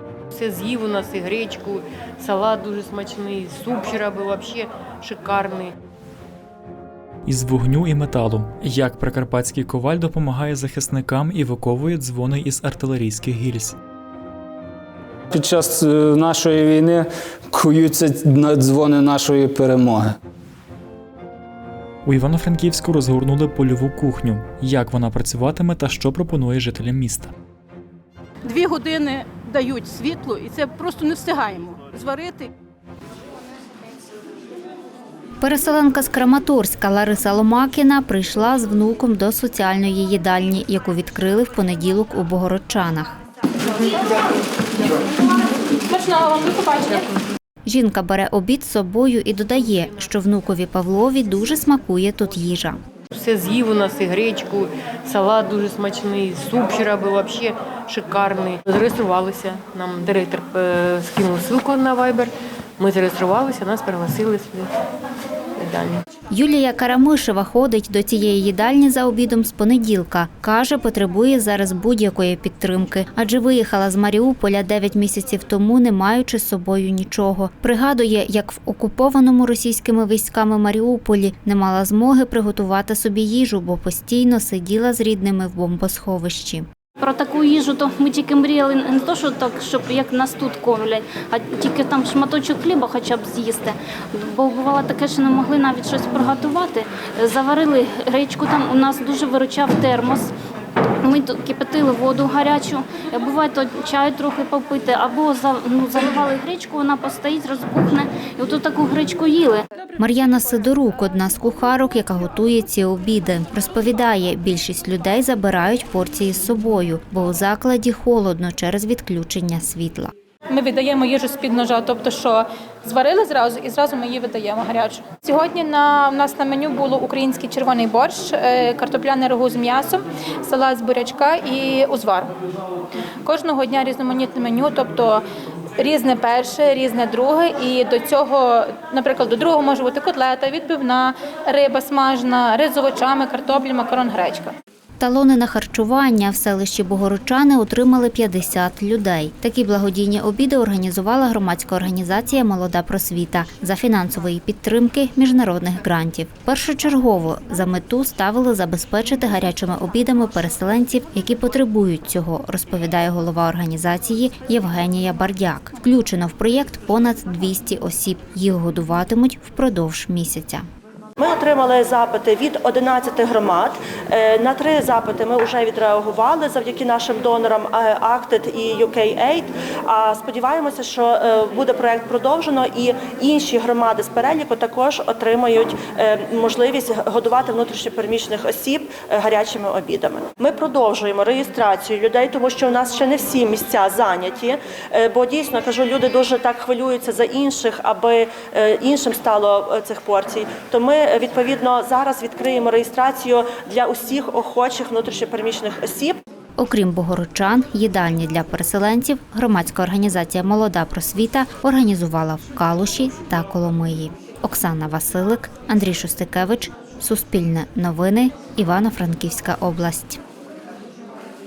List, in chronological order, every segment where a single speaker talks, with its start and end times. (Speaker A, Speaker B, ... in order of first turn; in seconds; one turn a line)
Speaker A: 0.3-5.7
Speaker B: 7.3-13.8
Speaker C: 15.3-20.2
Speaker B: 22.1-27.3
Speaker D: 28.4-32.5
Speaker E: 35.4-43.1
Speaker F: 45.9-47.2
Speaker E: 47.7-52.8
Speaker A: 53.1-64.7
Speaker A: 65.6-66.0
Speaker E: 66.3-86.7
Speaker G: 87.0-100.3
Speaker G: 101.0-109.7
Speaker E: 110.0-120.1
Speaker F: 120.5-132.3
Speaker F: 133.2-135.2
Speaker F: 135.8-144.5
Speaker E: 145.0-170.7
Speaker H: 171.2-206.2
Speaker E: 206.6-220.2